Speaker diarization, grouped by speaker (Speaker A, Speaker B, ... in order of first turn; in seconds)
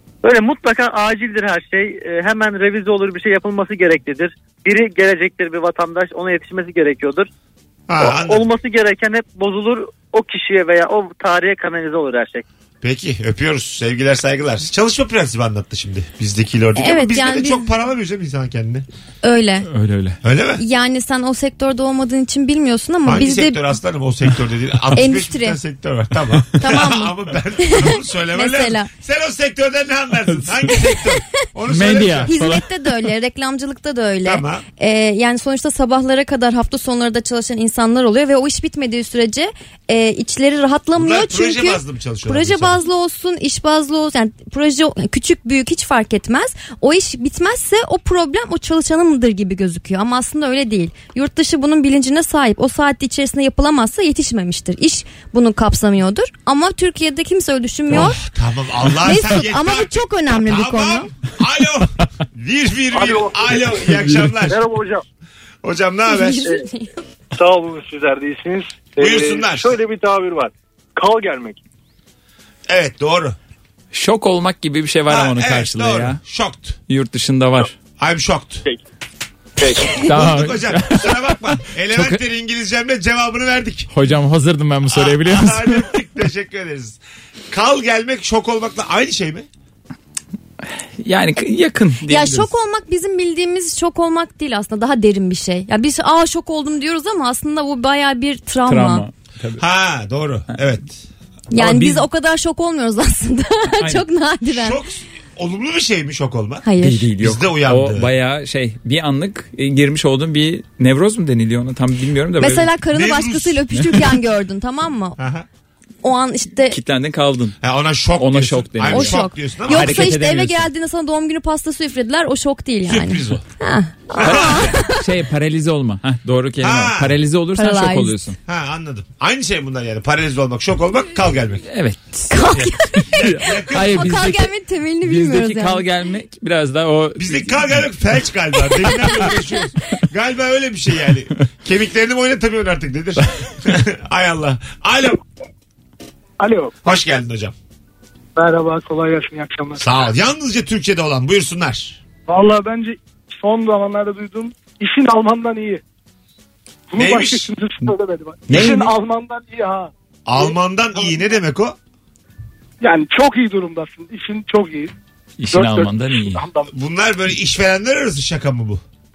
Speaker A: 0.2-7.3, 8.0-12.4
Speaker B: 7.9-8.4, 12.8-18.9, 20.2-20.6, 23.1-32.5, 34.2-34.6, 41.0-42.8, 57.9-64.6, 65.6-66.5, 69.0-69.8, 72.7-73.4, 75.1-76.8, 78.0-78.6, 80.0-83.9, 84.9-87.0, 87.5-89.5, 99.6-101.0, 104.5-106.7, 107.2-108.1, 112.9-113.7, 115.2-115.5, 117.6-120.1, 122.8-123.4, 124.2-124.7, 126.6-127.2, 128.4-131.7, 133.1-134.2, 137.2-145.2, 146.8-147.5, 149.8-152.0, 157.0-157.5, 160.2-161.8, 166.7-168.8
Speaker C: 16.8-17.7, 19.2-19.7, 20.6-23.6, 24.9-25.6, 26.6-28.9, 32.3-58.2, 59.0-61.1, 66.1-66.9, 92.1-99.0, 101.5-104.8, 106.6-107.1, 112.4-115.2, 116.0-116.8, 118.9-125.0, 127.5-128.2, 132.3-135.8
Speaker D: 19.7-20.2, 31.7-32.7, 73.9-76.2, 76.9-77.7, 80.0-82.2, 83.9-85.9, 91.0-92.5, 98.7-99.6, 101.5-102.0, 103.8-104.0, 106.8-112.7, 116.7-117.6, 118.2-120.7, 124.2-128.4, 131.7-137.9, 158.5-158.9, 165.4-166.4
Speaker E: 63.0-63.5, 64.5-65.0, 67.3-71.6
Speaker F: 146.4-146.7, 148.3-149.9, 152.3-155.8, 156.9-160.5, 162.8-164.9, 165.5-166.7